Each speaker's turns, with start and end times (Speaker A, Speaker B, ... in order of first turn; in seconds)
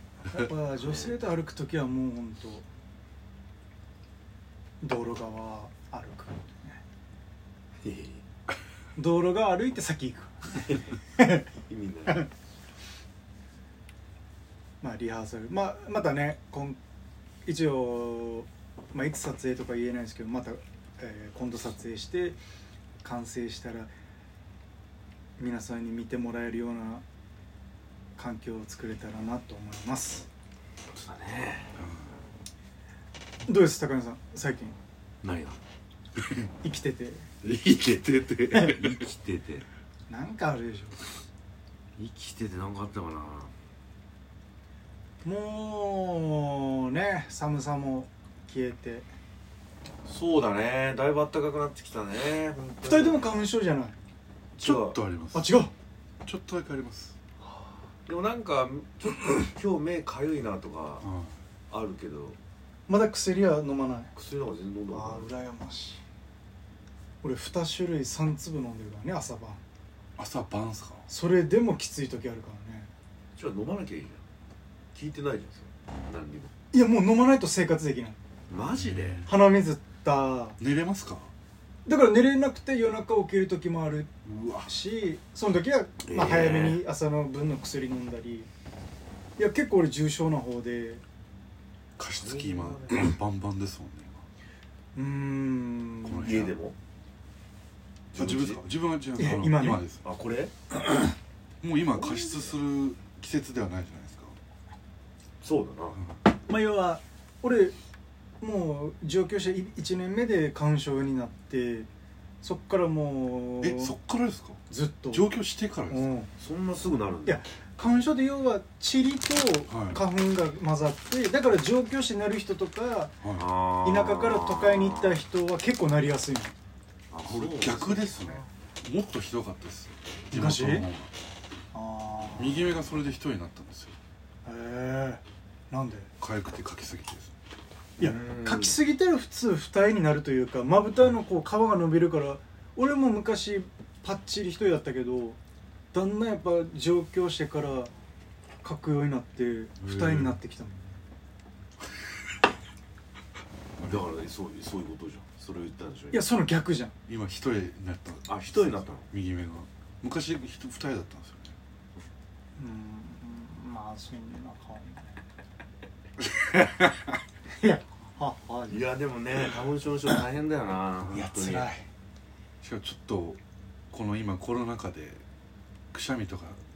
Speaker A: 0.2-2.7, 4.8-6.8, 9.0-11.4, 14.8-16.8, 17.4-22.4, 23.0-23.9, 25.4-27.0, 28.2-30.3, 33.5-34.8, 36.6-37.3, 40.1-41.0, 45.2-49.1, 52.8-54.0, 55.3-55.7, 62.9-64.1, 64.9-66.0, 67.2-69.6, 71.1-72.9, 76.7-78.2, 79.3-80.6, 81.9-84.1, 84.7-88.5, 89.4-91.0, 95.0-96.4, 99.2-99.8, 106.5-107.8, 108.4-111.9, 112.4-114.0, 114.7-115.3, 115.9-116.3, 117.2-123.2, 123.8-126.5, 130.3-130.9, 131.7-132.8, 134.4-136.1, 138.0-145.4, 145.9-147.9, 148.6-151.0, 156.1-156.9, 162.6-165.1, 167.5-168.9, 171.1-171.8
Speaker B: 0.8-1.2, 7.8-8.2, 11.7-12.3, 30.9-31.7, 35.2-35.6, 38.4-39.6, 42.0-43.5, 50.1-53.5, 54.6-55.0, 58.0-61.1, 61.7-62.4, 64.1-65.3, 73.4-74.2, 74.9-76.5, 78.5-79.2, 86.0-86.8, 92.2-93.2, 96.2-96.8, 98.1-98.6, 100.0-100.5, 105.4-106.0, 116.4-117.4, 123.3-125.2, 127.1-128.1, 138.0-138.8, 153.8-156.2, 158.3-159.1, 168.7-171.7
Speaker C: 31.8-32.1, 36.2-36.5, 37.4-39.1, 54.6-55.5, 56.2-57.2, 61.0-61.4, 70.2-71.1, 78.8-79.3, 80.6-81.3, 84.2-84.7, 92.0-94.2, 96.0-96.6, 98.2-100.0, 101.6-104.4, 106.0-106.2, 113.6-116.1, 119.7-120.0, 123.2-123.5, 127.2-131.1, 132.4-134.0, 136.2-137.3, 149.8-150.4, 157.1-161.5, 166.5-166.9, 172.6-173.4, 173.9-175.2, 175.9-176.6